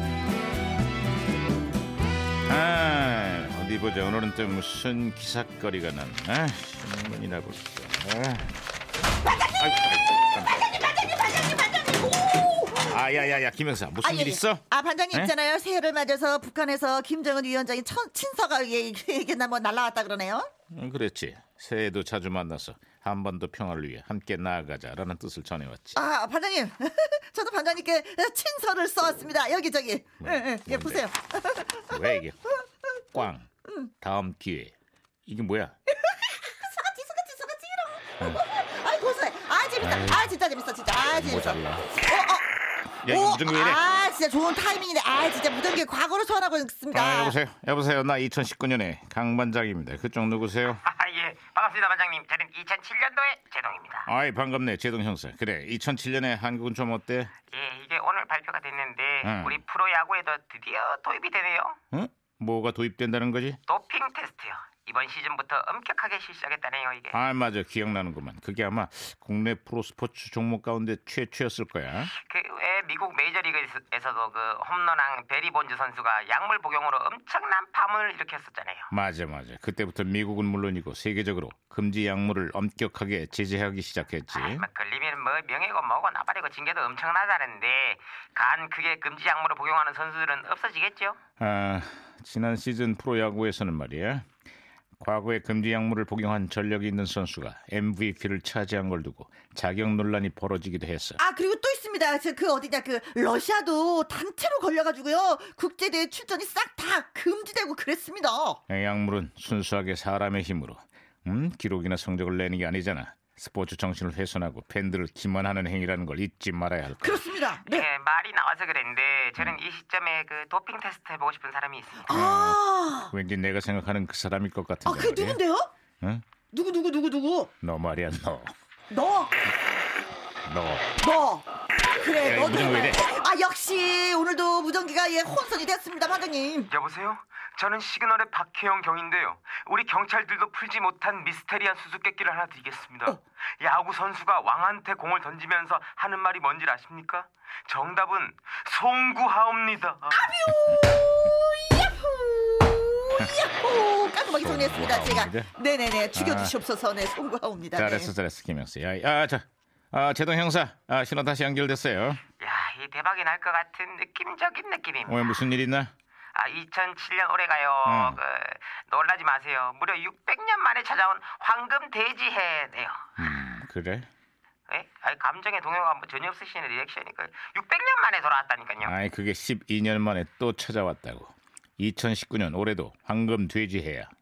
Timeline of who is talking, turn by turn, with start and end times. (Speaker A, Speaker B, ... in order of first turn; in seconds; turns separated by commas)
Speaker A: 2.5-8.5, Speaker A: 9.6-10.6, Speaker B: 10.7-12.9, Speaker A: 12.8-15.3, Speaker B: 14.0-20.5, Speaker A: 20.7-26.0, Speaker B: 25.9-32.2, Speaker A: 30.2-31.0, Speaker A: 31.9-32.4, Speaker A: 33.1-33.5, Speaker A: 34.0-34.7, Speaker A: 35.2-35.7, Speaker B: 35.9-42.5, Speaker A: 39.8-40.3, Speaker A: 41.0-41.9, Speaker A: 43.0-43.8, Speaker B: 43.0-47.3, Speaker A: 46.9-50.8, Speaker C: 50.7-54.1, Speaker A: 54.1-57.3, Speaker C: 57.5-61.8, Speaker A: 59.2-59.6, Speaker A: 61.9-63.6, Speaker C: 63.7-67.2, Speaker A: 67.1-72.1, Speaker C: 72.0-78.9, Speaker A: 78.9-84.6, Speaker C: 84.3-91.2, Speaker A: 91.4-94.2, Speaker A: 95.0-101.2, Speaker B: 101.2-108.6, Speaker A: 108.7-117.2, Speaker B: 117.0-117.9, Speaker C: 117.6-122.2, Speaker B: 122.1-123.1, Speaker A: 122.1-125.4, Speaker B: 124.8-125.7, Speaker B: 126.5-127.5, Speaker A: 127.6-128.5, Speaker B: 128.9-129.4, Speaker A: 130.4-130.9, Speaker B: 131.0-131.4, Speaker B: 132.0-136.7, Speaker A: 132.2-133.1, Speaker C: 136.7-150.3, Speaker B: 150.1-158.1, Speaker A: 154.4-155.5, Speaker A: 156.1-156.5, Speaker A: 157.7-162.2, Speaker C: 162.4-165.4, Speaker A: 165.1-165.9, Speaker C: 166.3-173.1, Speaker A: 167.8-168.2, Speaker A: 173.2-174.1, Speaker C: 174.7-178.9, Speaker A: 178.8-184.1